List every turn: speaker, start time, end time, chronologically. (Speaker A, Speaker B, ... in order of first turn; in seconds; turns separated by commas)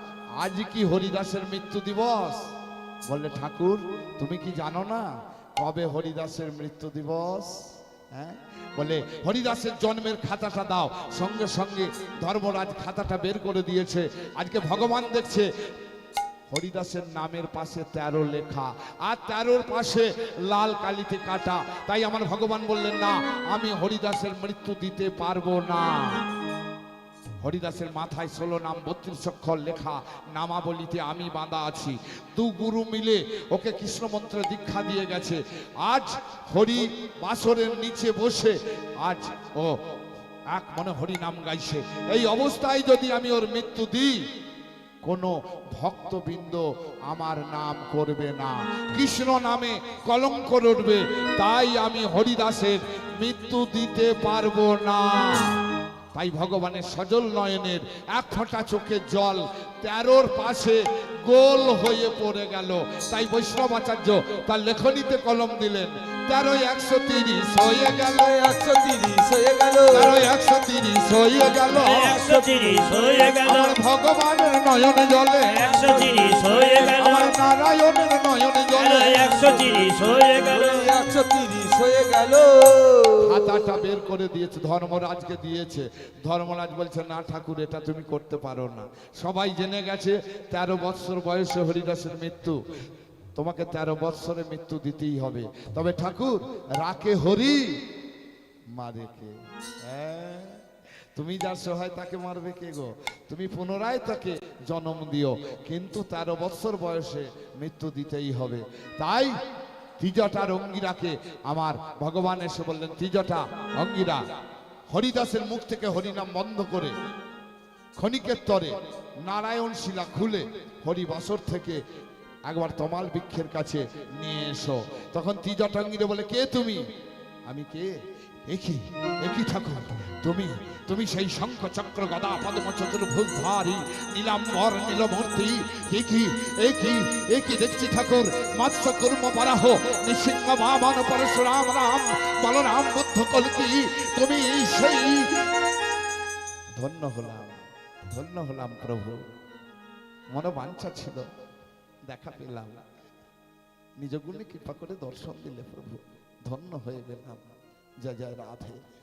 Speaker A: 0.4-2.5, Speaker A: 3.1-5.1, Speaker A: 5.6-15.5, Speaker A: 16.5-26.2, Speaker A: 27.4-39.8, Speaker A: 40.5-44.2, Speaker A: 45.0-55.6, Speaker A: 56.1-68.3, Speaker B: 68.2-70.2, Speaker A: 69.9-72.2, Speaker C: 71.7-73.8, Speaker A: 73.4-75.6, Speaker C: 75.5-77.3, Speaker B: 76.3-76.8, Speaker A: 76.9-79.3, Speaker C: 78.7-80.9, Speaker B: 80.5-83.5, Speaker A: 83.2-92.6, Speaker A: 93.3-97.8, Speaker A: 98.7-100.6, Speaker A: 101.1-109.3, Speaker A: 110.0-114.2, Speaker A: 114.9-116.9, Speaker A: 118.0-121.8, Speaker A: 122.5-126.8, Speaker A: 127.5-127.9, Speaker A: 128.5-145.3, Speaker A: 146.8-149.2, Speaker A: 150.3-151.2, Speaker A: 152.1-152.8, Speaker A: 154.0-158.8